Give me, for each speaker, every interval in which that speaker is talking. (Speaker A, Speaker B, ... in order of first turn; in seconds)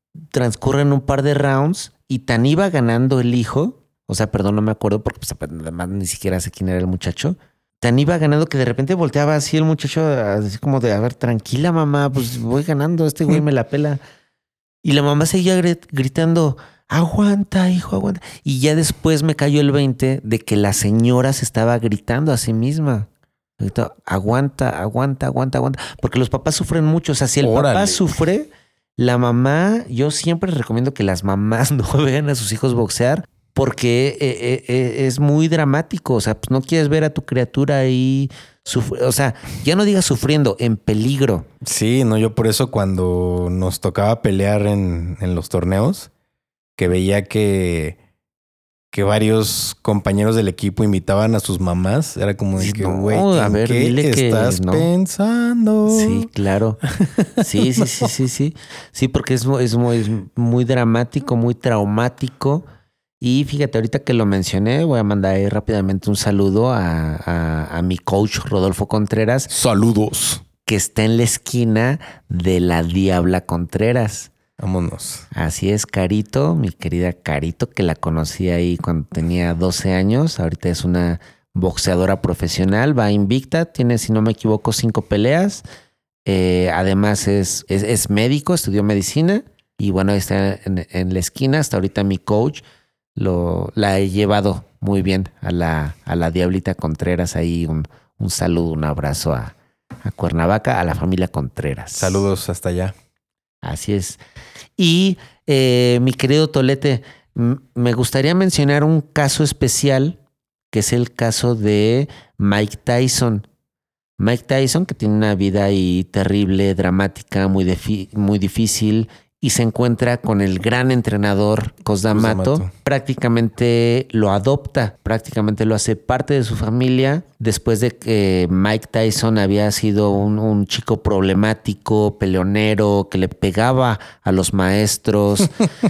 Speaker A: 0.3-14.0, 14.8-23.1, 23.6-28.5, 29.0-41.5, 52.6-54.9, 55.9-56.8, 57.4-62.6, 63.2-69.5, 70.6-74.3, 75.3-85.6, 86.2-92.6, 93.1-102.2, 103.6-104.2, 104.8-110.2, 110.7-113.5, 114.2-135.6
Speaker B: 27.4-28.0, 41.6-46.1, 46.8-48.0, 48.9-56.3, 56.8-58.1, 69.5-70.4, 74.6-75.2, 101.9-102.9, 122.1-122.7